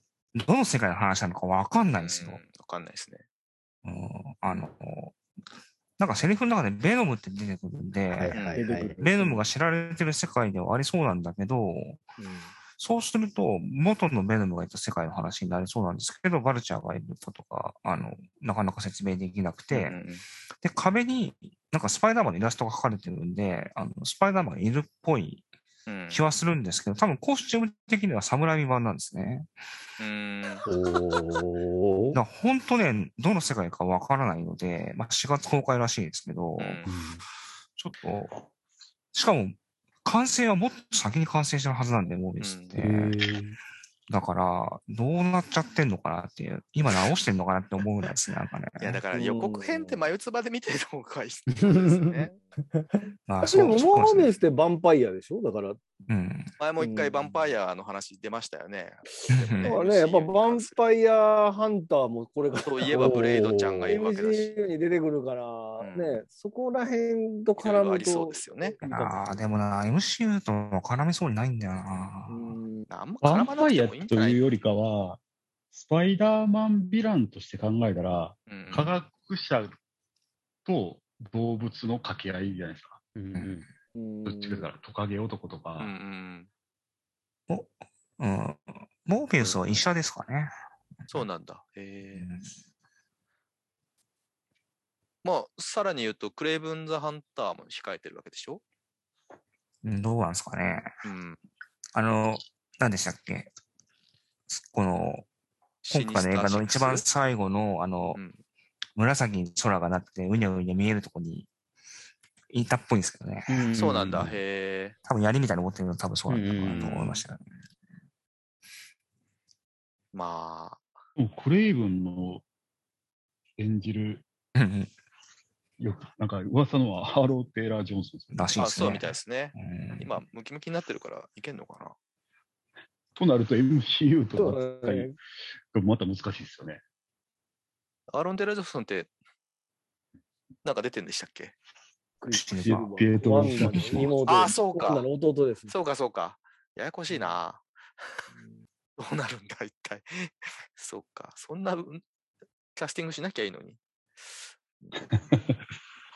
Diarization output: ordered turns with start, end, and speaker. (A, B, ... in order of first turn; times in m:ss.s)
0:00.4-0:02.4 A
0:02.0-0:03.2 B
0:03.8-0:05.2 A
0:06.0-0:08.4 A
0:08.1-0:09.0 C
0:08.3-0:08.6 B
0:08.6-0:09.5 D
0:09.0-0:12.0 A
0:12.2-0:12.5 D
0:12.8-0:20.0 A
0:19.7-0:20.2 B
0:20.6-0:25.4 A
0:25.9-0:26.2 B
0:26.1-0:29.5 A
0:30.0-0:30.6 B
0:30.6-0:32.2 C
0:32.1-0:36.8 A
0:36.6-0:36.8 B
0:36.8-0:37.2 C
0:37.8-0:38.4 A
0:39.1-0:43.2 A
0:42.4-0:42.8 B
0:42.8-0:43.6 C
0:44.1-0:49.0 A
0:48.8-0:52.3 B
0:49.1-0:50.0 D
0:51.5-0:52.3 C
0:53.3-0:54.4 A
0:53.4-0:56.0 D
0:56.1-0:56.5 A
0:56.6-1:00.8 B
0:56.8-0:57.5 D
0:59.3-0:59.8 A
0:59.6-1:09.4 D
1:02.6-1:04.6 B
1:05.8-1:06.2 B
1:07.6-1:08.8 B
1:08.8-1:12.6 A
1:12.3-1:12.9 D
1:12.9-1:14.4 B
1:13.2-1:15.2 E
1:15.7-1:19.8 E
1:18.5-1:18.9 B
1:20.7-1:23.0 E
1:23.2-1:23.6 C
1:23.4-1:23.6 A
1:24.0-1:24.7 D
1:24.2-1:25.9 E
1:25.8-1:26.5 B
1:27.5-1:30.5 A
1:31.1-1:32.3 B
1:32.1-1:32.5 A
1:35.2-1:38.6 B
1:39.8-1:40.9 A
1:41.0-1:41.4 B
1:42.0-1:43.5 A
1:44.5-1:45.3 A
1:45.8-1:47.1 B
1:45.9-1:48.2 A
1:49.0-1:51.5 A
1:52.5-1:53.7 A
1:53.5-1:54.4 C
1:53.8-1:55.0 B
1:55.0-1:57.4 A
1:56.3-1:57.0 C
1:56.7-1:57.2 B
2:00.1-2:00.8 B
2:01.2-2:02.4 E
2:03.6-2:04.2 E
2:04.6-2:04.9 A
2:05.8-2:08.6 E
2:08.3-2:10.2 A
2:08.6-2:11.9 B
2:13.2-2:15.1 E
2:14.4-2:15.2 D
2:15.7-2:16.8 E
2:18.1-2:19.1 B
2:20.6-2:21.5 B
2:22.2-2:25.7 D
2:22.3-2:22.9 A
2:22.6-2:24.2 E
2:23.6-2:24.1 A
2:24.3-2:25.1 B
2:25.7-2:27.6 B
2:27.1-2:27.4 D
2:29.0-2:32.0 B
2:32.8-2:34.4 B
2:35.1-2:35.6 E